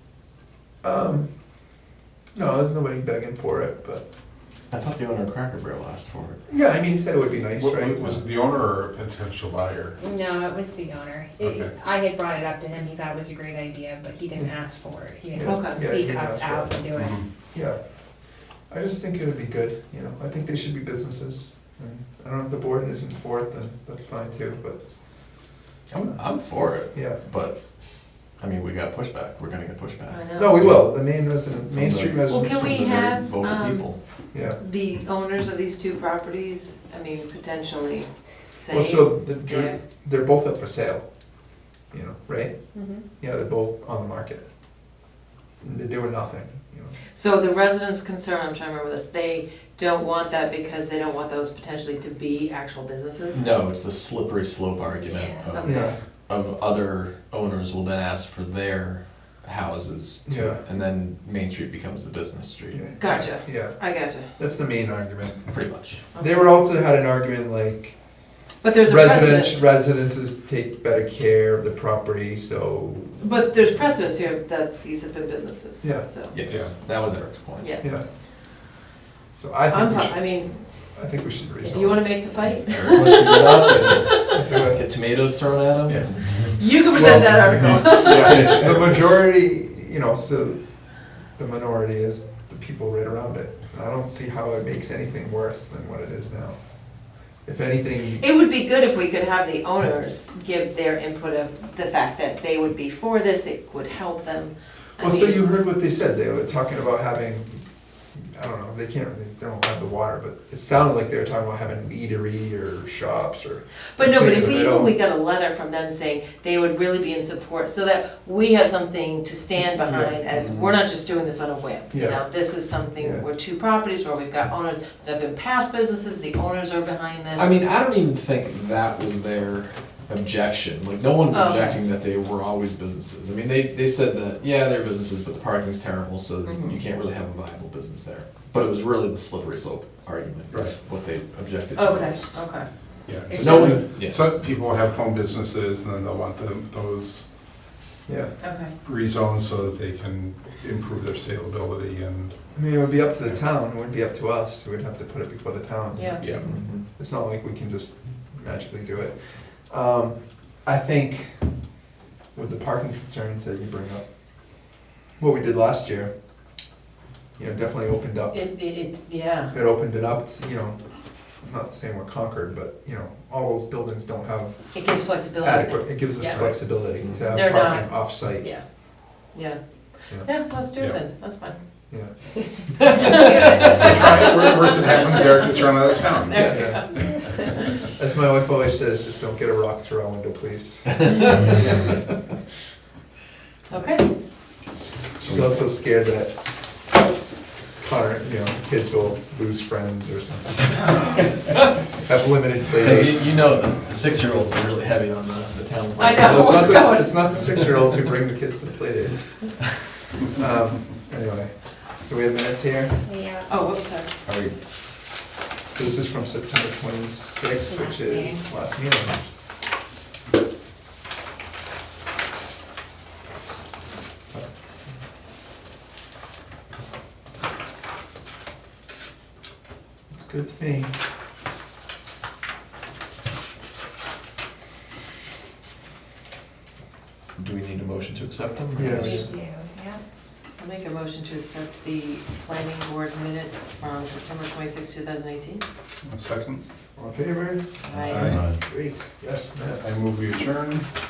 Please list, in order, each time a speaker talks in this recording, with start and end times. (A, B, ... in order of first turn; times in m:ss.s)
0:00.8-0:01.3 A
0:02.3-0:04.0 A
0:04.7-0:06.4 B
0:06.5-0:08.3 A
0:07.6-0:10.0 C
0:10.0-0:17.2 D
0:11.4-0:11.7 C
0:15.3-0:16.8 A
0:15.4-0:15.8 E
0:17.0-0:17.2 C
0:17.5-0:25.4 A
0:25.9-0:27.6 B
0:26.1-0:27.2 A
0:28.3-0:34.0 B
0:30.1-0:30.6 E
0:30.4-0:33.0 A
0:32.3-0:34.0 E
0:34.3-0:34.6 A
0:34.6-0:39.8 E
0:38.7-0:41.0 A
0:41.9-0:44.4 A
0:42.8-0:43.0 D
0:45.6-0:47.0 A
0:47.1-0:53.5 E
0:53.3-1:02.8 B
0:54.9-0:55.5 D
0:55.5-0:56.0 E
0:55.6-0:56.0 A
1:00.3-1:00.6 A
1:02.7-1:08.0 A
1:03.0-1:04.3 E
1:05.4-1:06.0 B
1:06.2-1:06.4 E
1:08.6-1:09.7 E
1:08.8-1:13.2 A
1:13.2-1:16.4 E
1:16.3-1:17.7 B
1:16.5-1:16.7 C
1:17.6-1:17.8 E
1:19.3-1:22.2 A
1:19.7-1:20.6 E
1:21.6-1:24.4 E
1:22.7-1:27.3 B
1:24.3-1:24.8 A
1:26.4-1:28.6 E
1:26.9-1:30.6 A
1:28.0-1:28.5 B
1:28.0-1:28.6 C
1:31.4-1:36.6 A
1:37.4-1:38.2 A
1:38.2-1:45.4 E
1:45.0-1:55.0 A
1:54.0-2:07.5 E
1:59.8-2:00.2 A
2:01.9-2:02.2 A
2:03.0-2:03.2 A
2:07.4-2:22.4 B
2:11.3-2:11.8 E
2:16.4-2:16.8 E
2:21.8-2:22.7 E
2:23.1-2:27.3 C
2:23.3-2:23.8 D
2:23.4-2:24.3 B
2:28.1-2:28.4 A
2:28.4-2:28.7 E
2:28.8-2:32.6 C
2:32.5-2:41.8 A
2:35.9-2:36.2 E
2:36.2-2:36.6 C
2:36.3-2:36.8 B
2:42.3-2:46.6 A
2:47.4-2:48.5 A
2:48.3-2:49.5 E
2:49.5-2:58.5 A
2:54.7-2:56.7 E
2:57.3-2:58.6 E
2:59.3-2:59.6 E
3:00.2-3:01.6 E
3:02.8-3:05.6 E
3:02.9-3:04.0 D
3:03.0-3:03.9 B
3:03.8-3:07.1 C
3:06.2-3:07.7 E
3:06.4-3:06.6 B
3:06.5-3:12.0 A
3:13.7-3:14.0 E
3:15.2-3:16.4 A
3:17.8-3:21.2 A
3:22.0-3:23.3 A
3:22.7-3:27.5 B
3:26.0-3:27.2 E
3:26.2-3:33.0 A
3:33.0-3:33.5 D
3:33.5-3:34.1 E
3:34.2-3:34.6 B
3:35.7-3:39.3 A
3:38.1-3:38.4 E
3:50.1-3:50.9 A
3:57.4-3:59.2 B
3:58.7-3:59.3 A
3:58.8-4:00.0 D
4:00.6-4:05.6 E
4:06.0-4:06.6 C
4:07.0-4:10.0 A
4:07.8-4:08.4 E
4:08.0-4:08.5 C
4:09.8-4:10.9 C